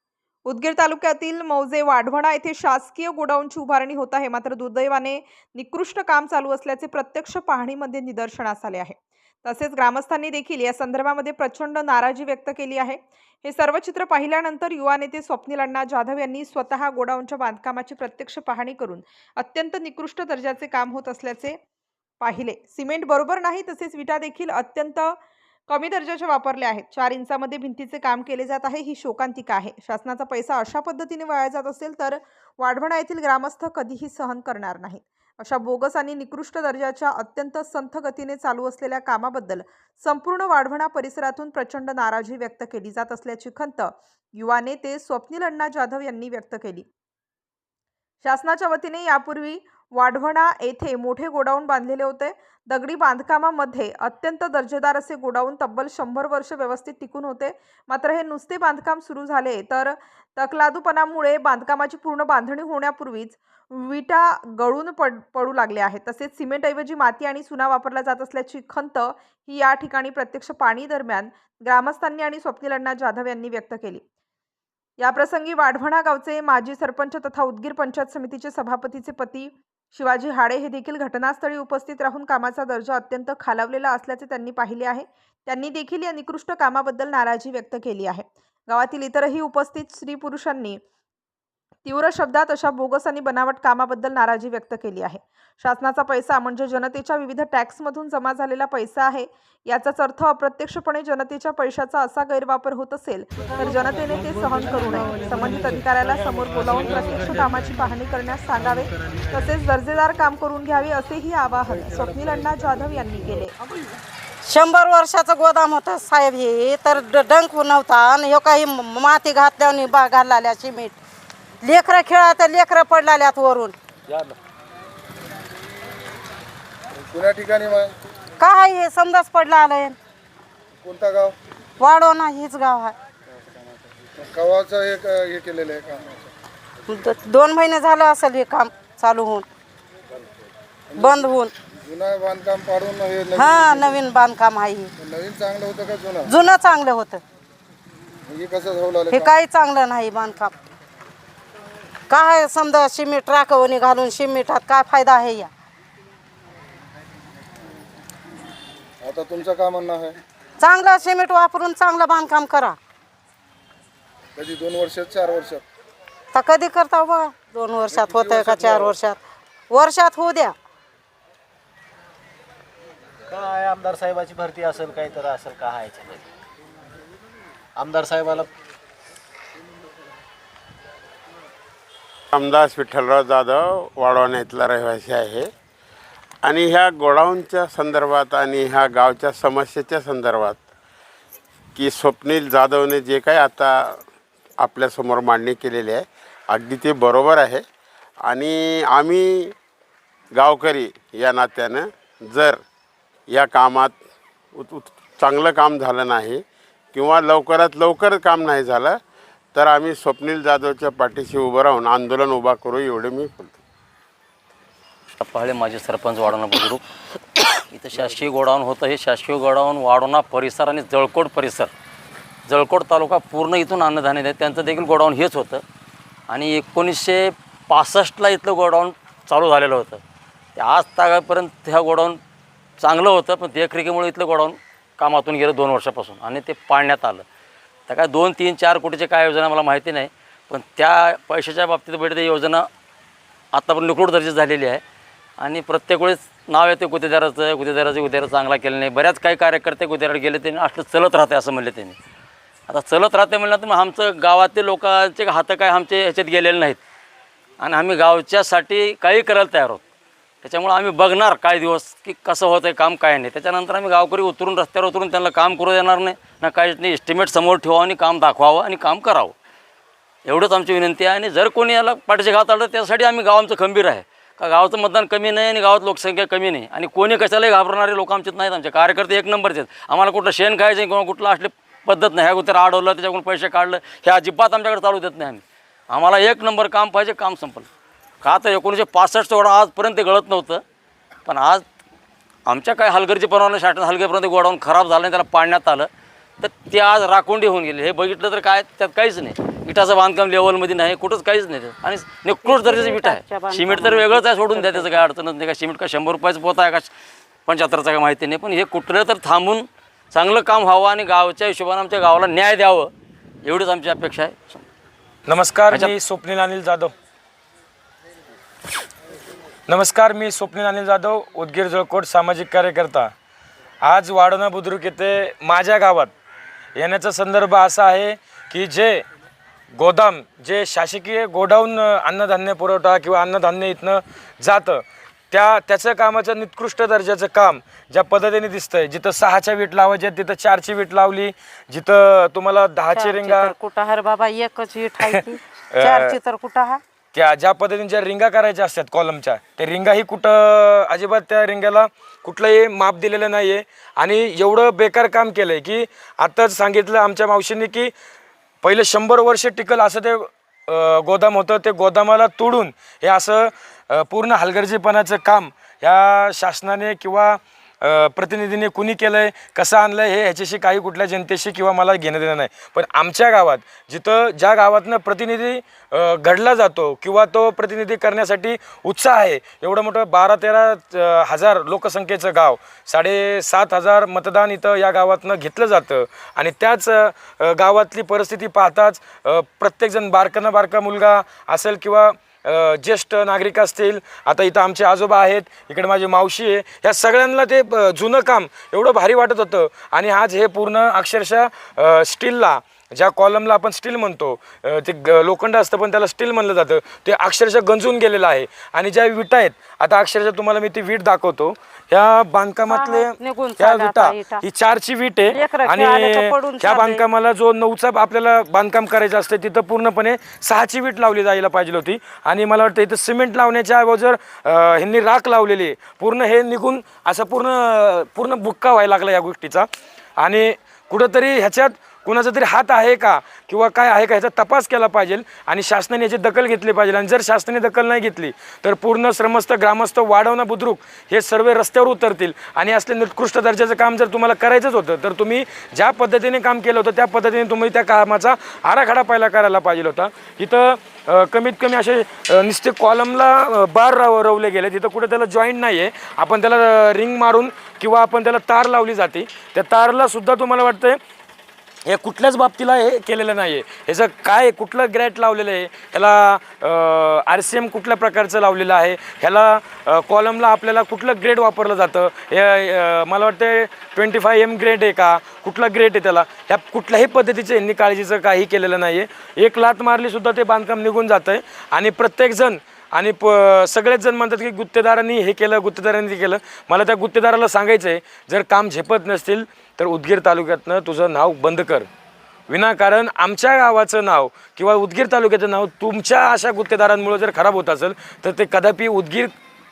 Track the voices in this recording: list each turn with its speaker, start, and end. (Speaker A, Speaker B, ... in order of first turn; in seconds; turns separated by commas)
Speaker A: 0.5-21.6, Speaker A: 22.2-25.2, Speaker A: 25.7-46.9, Speaker A: 48.2-74.0, Speaker A: 75.0-90.8, Speaker A: 91.8-113.5, Speaker B: 114.5-121.0, Speaker B: 121.6-123.7, Speaker C: 124.1-124.3, Speaker D: 127.1-127.9, Speaker B: 128.4-129.9, Speaker D: 130.8-131.3, Speaker B: 131.8-132.9, Speaker D: 134.3-136.2, Speaker B: 136.9-139.4, Speaker B: 141.0-141.5, Speaker D: 141.9-143.9, Speaker B: 143.3-144.9, Speaker D: 145.0-146.2, Speaker B: 146.3-147.2, Speaker D: 148.3-149.2, Speaker B: 149.1-150.5, Speaker B: 152.1-155.5, Speaker D: 159.0-160.2, Speaker B: 160.6-162.8, Speaker D: 164.4-165.6, Speaker B: 166.3-169.2, Speaker D: 168.1-168.8, Speaker B: 169.7-170.6, Speaker E: 173.3-176.3, Speaker E: 177.8-178.5, Speaker F: 182.3-185.5, Speaker F: 186.4-190.7, Speaker F: 191.8-194.0, Speaker F: 194.6-197.6, Speaker F: 198.2-199.6, Speaker F: 200.3-202.6, Speaker F: 203.3-204.0, Speaker F: 204.6-206.4, Speaker F: 206.9-209.0, Speaker F: 209.5-213.6, Speaker G: 215.2-216.8, Speaker G: 217.7-221.7, Speaker G: 222.5-225.6, Speaker G: 226.3-230.0, Speaker G: 230.6-232.2, Speaker G: 232.8-237.2, Speaker G: 237.9-242.7, Speaker G: 243.5-244.8, Speaker G: 245.4-252.0, Speaker G: 252.7-256.8, Speaker G: 257.6-259.8, Speaker G: 260.4-269.3, Speaker G: 270.3-287.7, Speaker G: 288.2-290.6, Speaker G: 291.3-291.6, Speaker G: 292.5-295.9, Speaker G: 296.4-306.9, Speaker B: 302.4-305.0, Speaker G: 307.5-312.9, Speaker G: 313.4-314.6, Speaker C: 315.3-316.9, Speaker C: 319.7-323.1, Speaker C: 323.8-326.1, Speaker C: 326.8-329.1, Speaker C: 329.7-343.5, Speaker B: 342.9-346.8, Speaker C: 345.7-346.2, Speaker C: 347.1-357.9, Speaker C: 358.6-461.0, Speaker B: 412.7-414.4, Speaker B: 415.3-417.0, Speaker C: 461.9-491.9, Speaker C: 492.5-499.3